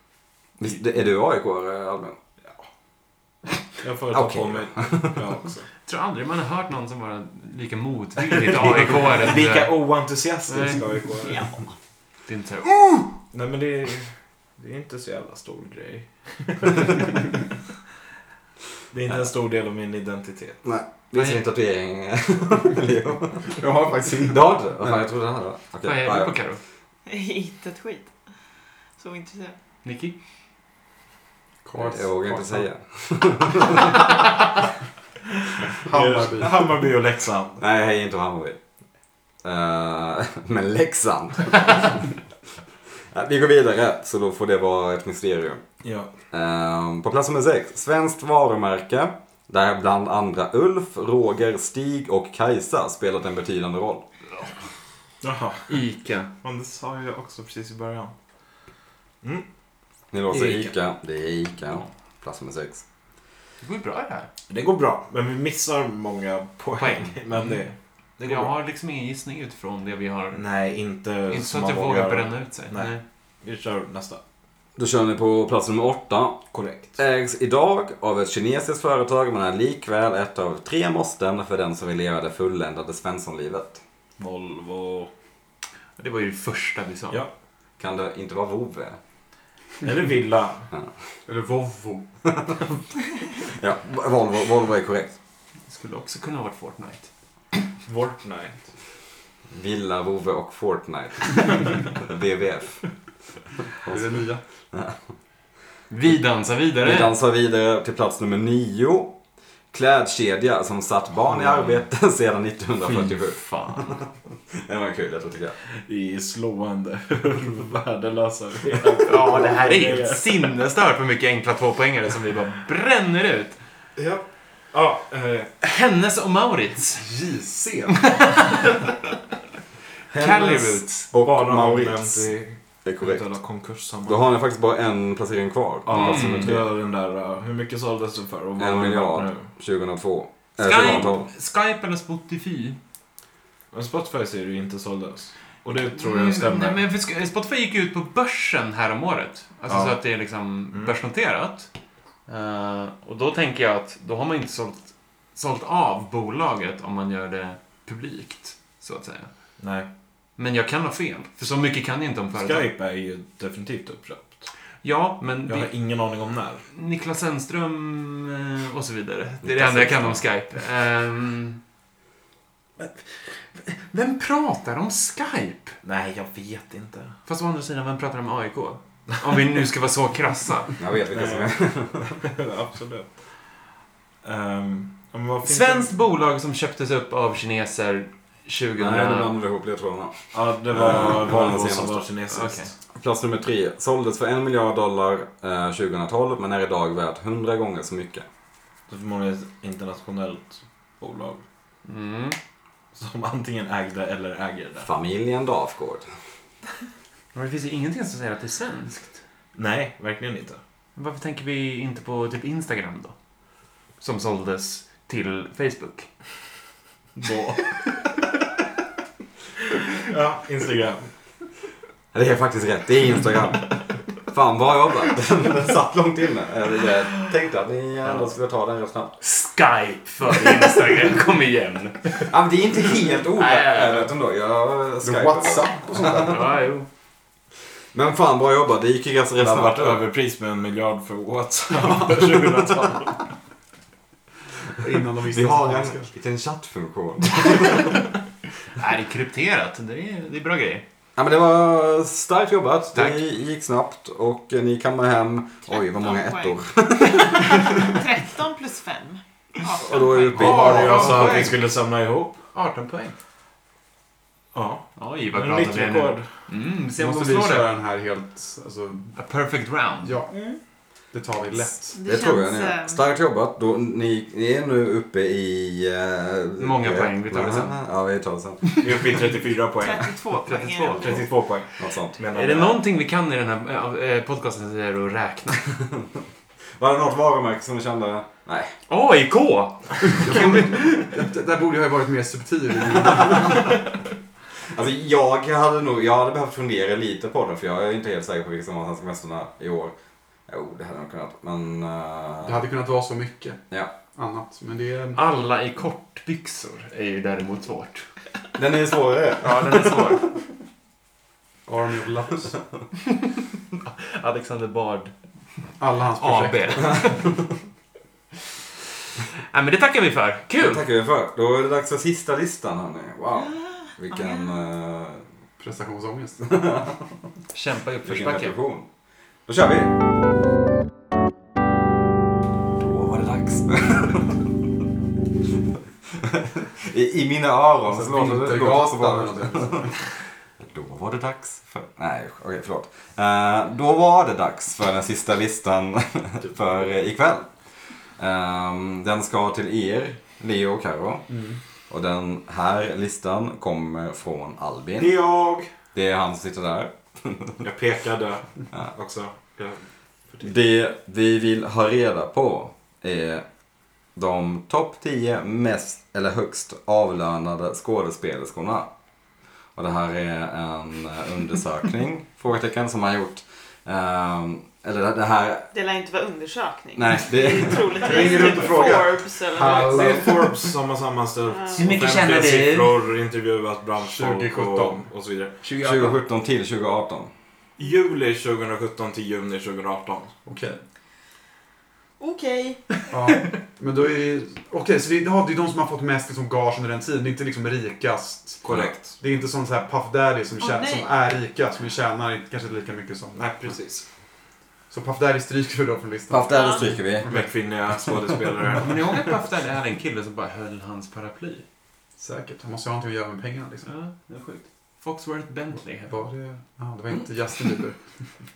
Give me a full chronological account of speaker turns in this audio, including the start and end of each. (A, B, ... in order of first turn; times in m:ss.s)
0:00.6-0:02.2 A
0:03.8-0:05.7 B
0:04.1-0:05.1 A
0:05.8-0:09.8 C
0:08.5-0:11.6 B
0:10.5-0:10.8 C
0:12.2-0:13.1 C
0:13.3-0:17.2 B
0:18.9-0:20.6 B
0:20.6-0:23.6 A
0:21.1-0:21.4 C
0:23.4-0:25.0 D
0:24.2-0:26.4 A
0:25.8-0:26.6 C
0:27.0-0:28.1 E
0:29.0-0:29.6 E
0:29.8-0:30.1 C
0:31.6-0:32.7 D
0:31.8-0:33.9 A
0:35.8-0:36.8 D
0:35.9-0:37.6 B
0:37.6-0:38.6 A
0:39.4-0:42.0 A
0:43.1-0:45.6 A
0:45.8-0:46.1 B
0:46.3-0:54.0 A
0:55.2-0:55.8 B
0:55.7-0:56.3 C
0:56.4-0:58.1 B
1:00.1-1:02.8 A
1:00.3-1:00.7 B
1:03.6-1:04.3 C
1:04.5-1:08.5 B
1:06.8-1:07.6 C
1:08.2-1:10.4 C
1:10.3-1:14.2 B
1:11.3-1:13.0 C
1:14.8-1:16.4 A
1:16.5-1:17.0 B
1:17.0-1:23.8 A
1:24.2-1:25.1 B
1:26.0-1:27.2 C
1:27.8-1:29.0 A
1:29.8-1:30.7 B
1:31.3-1:32.6 D
1:33.5-1:35.1 A
1:35.7-1:37.1 C
1:37.8-1:38.6 B
1:39.5-1:42.9 A
1:43.8-1:44.4 D
1:44.7-1:45.0 A
1:45.9-1:47.1 C
1:46.8-1:49.1 A
1:49.7-1:55.6 A
1:52.8-1:54.0 C
1:55.8-2:00.3 B
1:59.0-2:03.6 C
2:04.0-2:05.5 B
2:05.6-2:07.1 C
2:07.0-2:08.5 D
2:07.9-2:08.9 C
2:10.1-2:11.1 C
2:10.1-2:12.3 A
2:11.2-2:14.2 B
2:12.8-2:13.2 A
2:14.1-2:16.7 A
2:15.8-2:19.5 B
2:15.9-2:16.5 C
2:18.6-2:21.3 A
2:20.6-2:22.8 C
2:23.7-2:26.8 B
2:25.9-2:31.7 C
2:29.7-2:30.0 B
2:32.3-2:39.3 C
2:39.6-2:39.9 B
2:40.4-2:42.7 C
2:42.3-2:44.5 B
2:44.8-2:45.7 C
2:45.4-2:46.6 B
2:46.7-2:51.6 C
2:49.4-2:50.2 A
2:52.8-2:55.8 C
2:55.8-2:57.2 B
2:57.3-3:00.7 C
3:00.8-3:02.2 A
3:01.1-3:03.3 B
3:04.2-3:05.9 B
3:05.4-3:09.3 C
3:08.8-3:12.0 A
3:10.3-3:12.7 B
3:11.2-3:11.5 C
3:12.3-3:12.7 C
3:12.9-3:18.2 A
3:18.9-3:21.4 B
3:21.8-3:22.4 C
3:22.9-3:24.9 B
3:24.8-3:26.0 A
3:27.3-3:29.2 C
3:29.5-3:30.6 B
3:31.0-3:33.1 C
3:34.0-3:36.1 C
3:37.2-3:37.6 B
3:40.0-3:41.1 B
3:42.1-3:49.2 A
3:48.0-3:48.3 C
3:49.2-3:52.3 C
3:50.3-3:50.6 A
3:52.2-3:56.4 A
3:53.3-3:54.1 C
3:55.0-3:56.4 D
3:56.0-3:56.9 C
3:57.9-4:00.0 A
3:59.4-4:03.2 B
4:04.8-4:06.1 D
4:05.3-4:07.9 A
4:08.8-4:10.8 C
4:11.2-4:17.8 A
4:12.9-4:13.2 C
4:15.7-4:20.8 E
4:19.8-4:21.5 A
4:20.3-4:22.4 B
4:20.4-4:21.6 C
4:22.5-4:23.2 C
4:24.5-4:26.3 B
4:24.9-4:27.7 C
4:27.0-4:29.2 D
4:29.1-4:30.2 C
4:30.0-4:30.4 D
4:30.3-4:30.6 E
4:31.1-4:32.0 D
4:31.9-4:33.0 E
4:32.0-4:38.7 A
4:36.6-4:37.8 C
4:38.8-4:40.2 B
4:39.8-4:41.2 E
4:40.5-4:41.2 C
4:40.9-4:42.8 B
4:41.8-4:42.2 A
4:42.3-4:45.6 C
4:46.8-4:48.7 A
4:48.9-4:51.1 C
4:50.2-4:53.8 D
4:54.7-4:59.9 A
5:00.5-5:02.6 A
5:02.4-5:05.2 D
5:05.1-5:08.0 C
5:08.5-5:10.1 A
5:09.4-5:10.3 C
5:11.6-5:12.6 D
5:13.8-5:15.1 C
5:15.8-5:17.1 D
5:16.2-5:17.2 C
5:19.4-5:20.8 C
5:20.6-5:25.2 A
5:23.4-5:24.5 E
5:25.6-5:26.9 D
5:26.5-5:26.9 A
5:27.5-5:28.5 C
5:28.0-5:28.9 A
5:29.5-5:29.9 A
5:32.7-5:34.5 A
5:36.2-5:39.9 A
5:37.8-5:40.0 D
5:40.6-5:47.5 A
5:48.1-5:51.2 A
5:51.3-5:51.6 D
5:51.9-5:55.1 A
5:55.0-5:55.7 B
5:55.9-5:57.6 A
5:57.6-6:00.5 B
6:00.4-6:03.4 A
6:04.1-6:08.9 A
6:09.7-6:15.7 A
6:15.7-6:20.0 E
6:16.9-6:18.1 A
6:18.0-6:20.7 D
6:18.5-6:19.0 B
6:19.5-6:25.6 B
6:21.5-6:21.8 E
6:21.7-6:23.0 C
6:24.0-6:25.0 D
6:25.6-6:26.2 C
6:25.8-6:27.3 A
6:27.8-6:30.3 B
6:30.4-6:30.8 D
6:32.2-6:33.0 E
6:33.1-6:43.8 D
6:38.6-6:39.2 B
6:38.6-6:38.9 A
6:40.6-6:41.1 E
6:43.3-6:44.0 B
6:44.9-6:47.5 D
6:46.3-6:47.3 A
6:46.5-6:47.0 E
6:47.3-6:49.4 B
6:48.8-6:51.6 C
6:52.2-6:53.9 D
6:53.8-6:56.2 C
6:56.1-6:58.0 D